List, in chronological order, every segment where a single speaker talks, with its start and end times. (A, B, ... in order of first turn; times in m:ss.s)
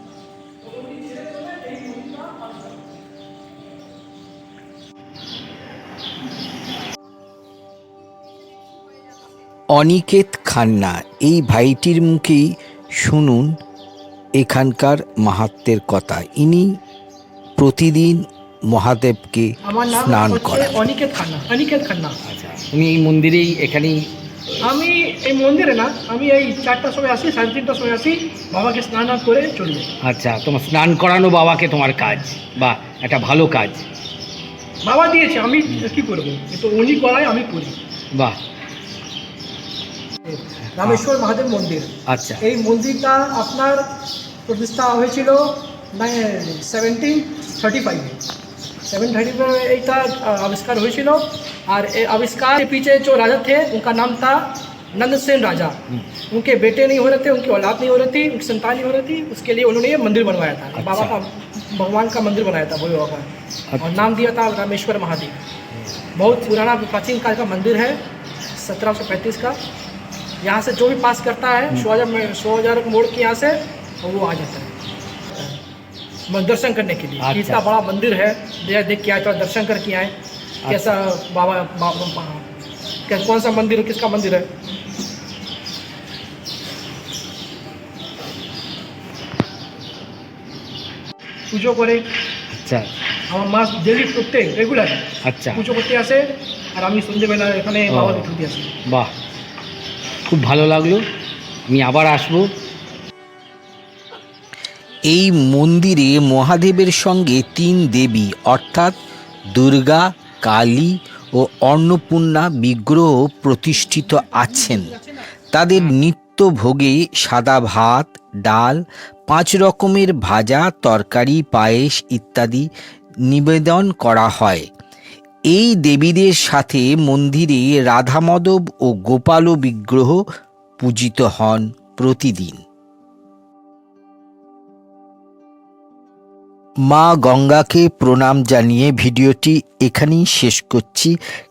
0:00.6-0:02.9 A
0:09.7-0:13.5 B
0:14.4-0:16.7 B
0:17.6-0:20.7 B
0:19.6-0:22.2 A
0:22.2-0:24.1 C
0:24.6-0:29.9 A
0:30.0-0:33.8 C
0:34.8-0:37.8 A
0:38.1-0:38.4 C
0:40.3-0:43.9 A
0:40.7-0:41.0 C
0:42.1-0:42.4 C
0:44.4-0:48.2 A
0:48.9-1:05.4 A
1:00.8-1:01.1 C
1:06.1-1:08.0 A
1:08.6-1:09.6 A
1:10.4-1:14.7 A
1:15.3-1:15.6 A
1:16.3-1:20.1 A
1:17.2-1:17.6 C
1:20.6-1:20.9 C
1:20.7-1:22.5 A
1:23.1-1:24.5 A
1:31.5-1:32.0 A
1:32.5-1:32.9 C
1:33.3-1:38.7 A
1:35.2-1:35.6 C
1:37.9-1:38.3 C
1:38.8-1:39.1 C
1:40.3-1:41.0 C
1:41.7-1:42.5 C
1:45.1-1:49.0 B
1:49.5-2:02.7 B
2:03.3-2:04.7 B
2:05.5-2:10.2 B
2:10.8-2:12.6 B
2:16.9-2:21.1 B